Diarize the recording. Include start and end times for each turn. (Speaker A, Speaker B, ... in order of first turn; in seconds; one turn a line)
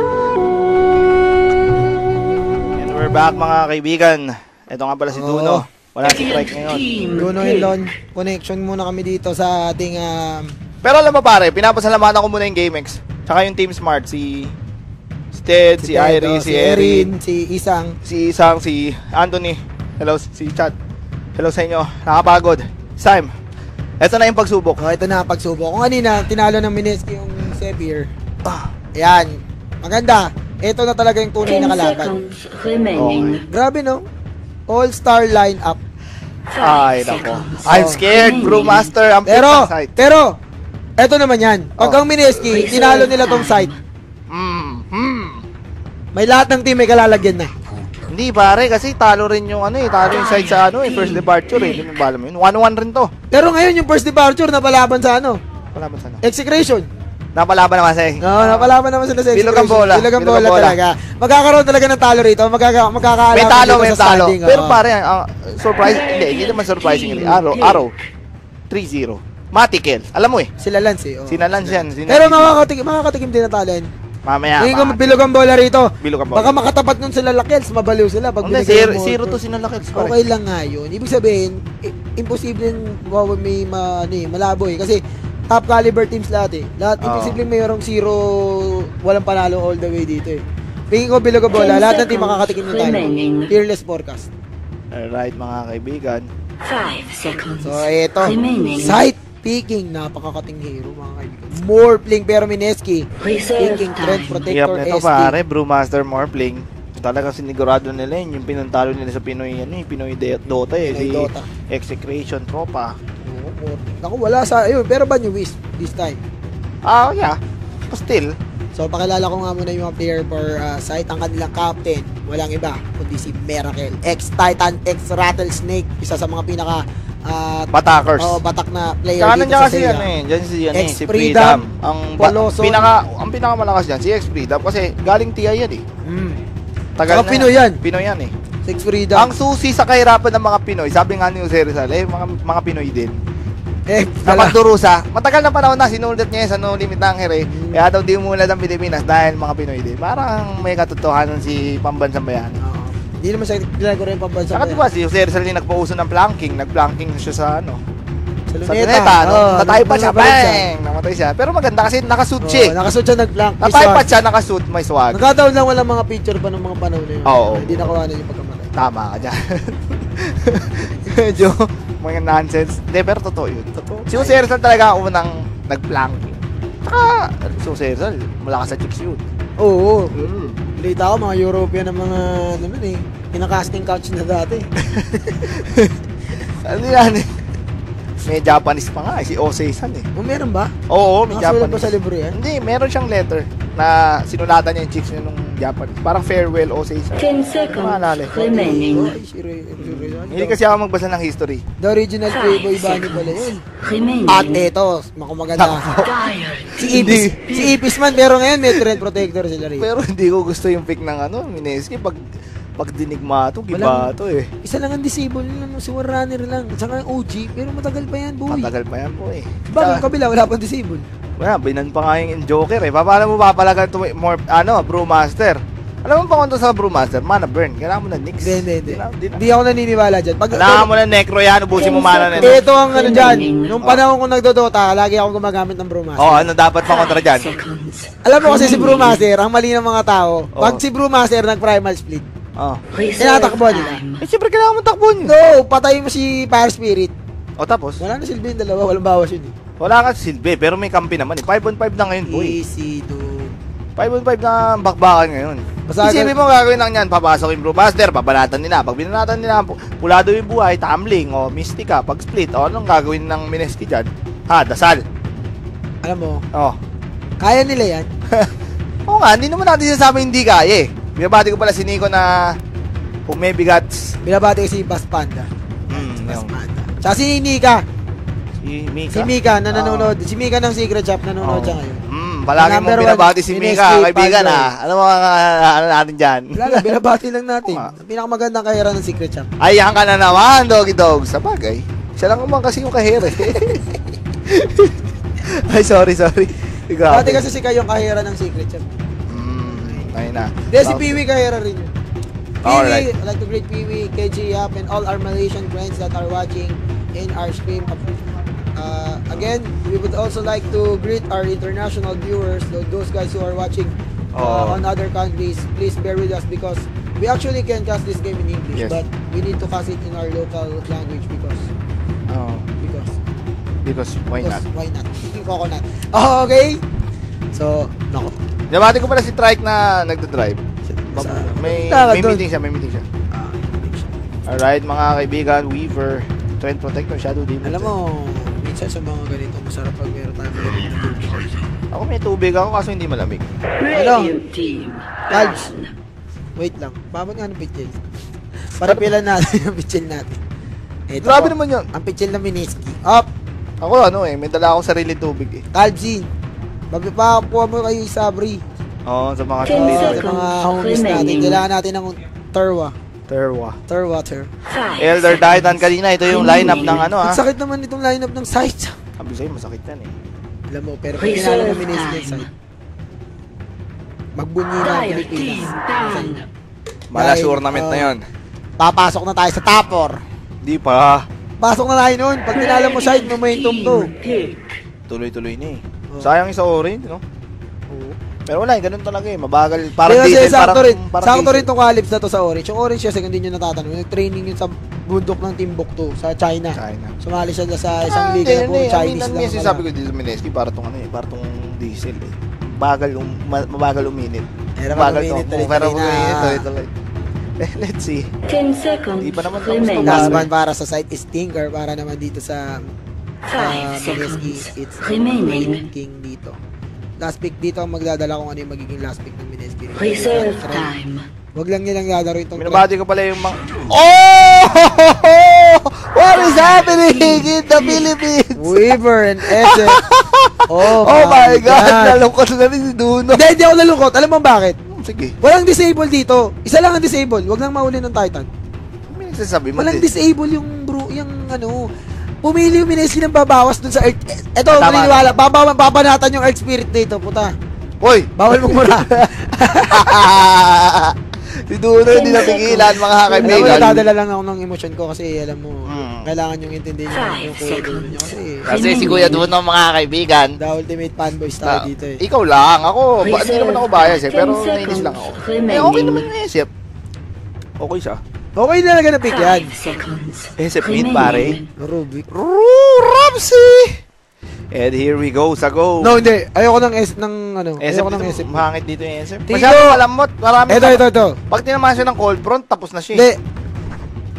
Speaker A: 2.8-6.9
Speaker B: 5.1-5.6
Speaker C: 6.0-7.8
Speaker B: 7.1-10.5
Speaker A: 10.8-14.5
Speaker A: 15.3-17.1
Speaker B: 15.8-18.0
Speaker A: 18.0-20.7
Speaker A: 21.4-23.3
Speaker A: 24.0-24.8
Speaker B: 24.8-28.1
Speaker B: 29.0-32.1
Speaker C: 31.4-33.4
Speaker A: 32.9-33.4
Speaker B: 33.5-34.0
Speaker B: 34.7-35.8
Speaker C: 36.5-38.9
Speaker A: 36.6-40.0
Speaker B: 37.7-38.0
Speaker B: 39.3-40.3
Speaker B: 41.0-43.7
Speaker C: 42.4-43.8
Speaker A: 44.3-45.4
Speaker B: 46.1-47.5
Speaker A: 48.1-53.1
Speaker C: 50.1-51.8
Speaker B: 53.3-55.4
Speaker A: 55.7-56.2
Speaker B: 56.2-56.9
Speaker A: 57.3-58.7
Speaker B: 58.2-64.8
Speaker A: 59.3-60.8
Speaker A: 63.3-67.9
Speaker C: 65.8-68.0
Speaker A: 68.7-70.5
Speaker B: 70.6-73.9
Speaker A: 71.3-72.5
Speaker A: 74.2-75.2
Speaker B: 74.6-79.4
Speaker A: 76.0-76.6
Speaker A: 78.4-80.2
Speaker B: 79.9-94.3
Speaker A: 87.0-87.4
Speaker C: 91.5-93.5
Speaker A: 94.9-96.3
Speaker C: 96.6-99.0
Speaker B: 97.6-105.3
Speaker C: 103.2-104.5
Speaker A: 104.5-113.0
Speaker B: 110.8-111.5
Speaker B: 113.2-116.2
Speaker A: 116.8-118.3
Speaker B: 118.7-130.1
Speaker A: 127.7-128.4
Speaker A: 129.2-135.8
Speaker B: 130.7-131.6
Speaker B: 132.2-132.9
Speaker B: 136.0-136.4
Speaker A: 137.0-138.3
Speaker B: 137.1-137.8
Speaker B: 138.6-139.3
Speaker A: 139.1-143.2
Speaker B: 143.9-144.6
Speaker A: 144.2-152.6
Speaker B: 147.4-147.8
Speaker B: 152.6-154.8
Speaker A: 154.5-157.8
Speaker B: 158.5-160.7
Speaker A: 158.6-162.7
Speaker B: 162.4-164.1
Speaker A: 163.6-165.3
Speaker B: 165.1-168.7
Speaker A: 167.2-167.9
Speaker A: 168.8-179.2
Speaker B: 174.1-174.4
Speaker B: 179.6-180.1
Speaker A: 180.1-180.6
Speaker B: 180.7-184.7
Speaker A: 184.8-187.3
Speaker A: 188.2-190.1
Speaker B: 190.1-190.7
Speaker A: 190.9-198.8
Speaker B: 191.3-192.4
Speaker C: 197.2-199.2
Speaker B: 198.6-200.6
Speaker A: 199.8-201.6
Speaker B: 201.8-203.6
Speaker C: 202.3-204.7
Speaker B: 204.3-205.8
Speaker A: 205.6-206.1
Speaker C: 205.9-207.9
Speaker A: 206.8-207.3
Speaker B: 206.8-209.9
Speaker A: 208.7-209.0
Speaker A: 209.8-212.2
Speaker A: 212.8-214.5
Speaker B: 213.7-214.1
Speaker B: 214.6-218.7
Speaker A: 218.5-220.0
Speaker B: 219.7-221.1
Speaker A: 221.4-229.4
Speaker B: 228.4-230.9
Speaker A: 230.5-232.6
Speaker C: 231.7-233.8
Speaker B: 232.4-236.5
Speaker A: 236.2-237.5
Speaker C: 236.8-239.2
Speaker B: 238.2-242.2
Speaker A: 240.5-240.8
Speaker C: 242.9-244.3
Speaker B: 243.2-244.0
Speaker A: 244.2-245.3
Speaker B: 245.2-247.1
Speaker A: 247.6-248.0
Speaker B: 248.0-249.5
Speaker A: 249.8-252.6
Speaker B: 252.2-253.5
Speaker A: 254.0-265.0
Speaker B: 255.9-256.3
Speaker B: 266.0-266.4
Speaker A: 266.5-266.8
Speaker B: 267.4-268.1
Speaker A: 269.1-272.5
Speaker A: 273.3-274.1
Speaker B: 274.2-277.8
Speaker A: 275.9-276.6
Speaker A: 278.6-280.1
Speaker B: 279.1-282.0
Speaker A: 281.4-286.9
Speaker B: 282.6-284.7
Speaker B: 286.5-289.5
Speaker A: 287.6-287.9
Speaker A: 289.6-293.8
Speaker A: 294.4-297.4
Speaker B: 297.1-298.9
Speaker A: 299.3-301.2
Speaker B: 300.7-301.9
Speaker A: 302.6-303.1
Speaker B: 302.6-308.1
Speaker B: 308.8-321.7
Speaker A: 314.3-314.8
Speaker A: 322.3-322.6
Speaker B: 322.8-323.1
Speaker A: 323.8-324.6
Speaker B: 324.4-326.8
Speaker B: 327.5-328.4
Speaker A: 328.7-330.6
Speaker B: 330.9-332.4
Speaker A: 331.1-333.1
Speaker B: 333.3-334.1
Speaker A: 334.5-337.9
Speaker B: 337.6-341.6
Speaker A: 341.9-343.5
Speaker C: 343.8-345.9
Speaker B: 343.9-344.3
Speaker B: 345.3-345.7
Speaker B: 346.6-348.0
Speaker B: 348.7-350.4
Speaker A: 348.8-349.1
Speaker B: 351.1-353.3
Speaker A: 351.2-351.9
Speaker A: 353.8-355.6
Speaker B: 355.7-356.3
Speaker B: 356.9-358.6
Speaker A: 359.1-360.3
Speaker C: 359.6-361.6
Speaker B: 359.7-362.9
Speaker A: 363.3-363.8
Speaker B: 363.9-364.5
Speaker C: 364.7-367.1
Speaker A: 365.0-367.4
Speaker B: 366.3-368.9
Speaker A: 369.2-370.1
Speaker B: 370.7-372.4
Speaker C: 371.2-372.5
Speaker B: 374.4-376.4
Speaker C: 374.8-376.4
Speaker A: 377.1-378.2
Speaker B: 377.1-378.1
Speaker B: 378.8-380.2
Speaker A: 380.6-381.2
Speaker B: 381.6-384.1
Speaker C: 382.5-384.8
Speaker A: 385.1-387.2
Speaker B: 387.9-388.2
Speaker A: 388.5-391.7
Speaker B: 390.1-399.8
Speaker A: 396.7-397.2
Speaker A: 398.1-406.9
Speaker B: 404.8-406.6
Speaker A: 407.6-408.3
Speaker C: 408.4-410.4
Speaker A: 409.2-410.5
Speaker B: 410.0-412.8
Speaker C: 413.5-415.9
Speaker B: 413.6-416.6
Speaker B: 417.2-420.9
Speaker C: 419.9-421.3
Speaker B: 421.5-422.9
Speaker A: 422.6-428.9
Speaker C: 426.3-428.0
Speaker B: 428.6-430.0
Speaker A: 429.4-433.5
Speaker B: 430.7-432.2
Speaker B: 433.3-434.8
Speaker A: 434.9-435.4
Speaker B: 435.4-438.5
Speaker A: 439.1-440.1
Speaker B: 439.8-441.9
Speaker B: 442.4-447.5
Speaker A: 444.7-445.3
Speaker A: 448.0-448.9
Speaker B: 448.4-450.3
Speaker A: 449.9-451.1
Speaker A: 451.7-454.1
Speaker C: 452.1-454.0
Speaker B: 453.4-459.1
Speaker A: 455.9-456.3
Speaker C: 457.1-459.5
Speaker A: 458.6-460.6
Speaker B: 460.6-462.2
Speaker A: 461.6-466.7
Speaker C: 463.2-466.3
Speaker A: 467.8-468.2
Speaker B: 468.6-469.7
Speaker C: 469.3-471.7
Speaker A: 470.6-471.6
Speaker B: 471.8-472.2
Speaker A: 472.3-474.0
Speaker A: 474.7-476.2
Speaker B: 476.0-478.6
Speaker A: 477.8-483.3
Speaker B: 479.5-480.0
Speaker B: 480.7-481.4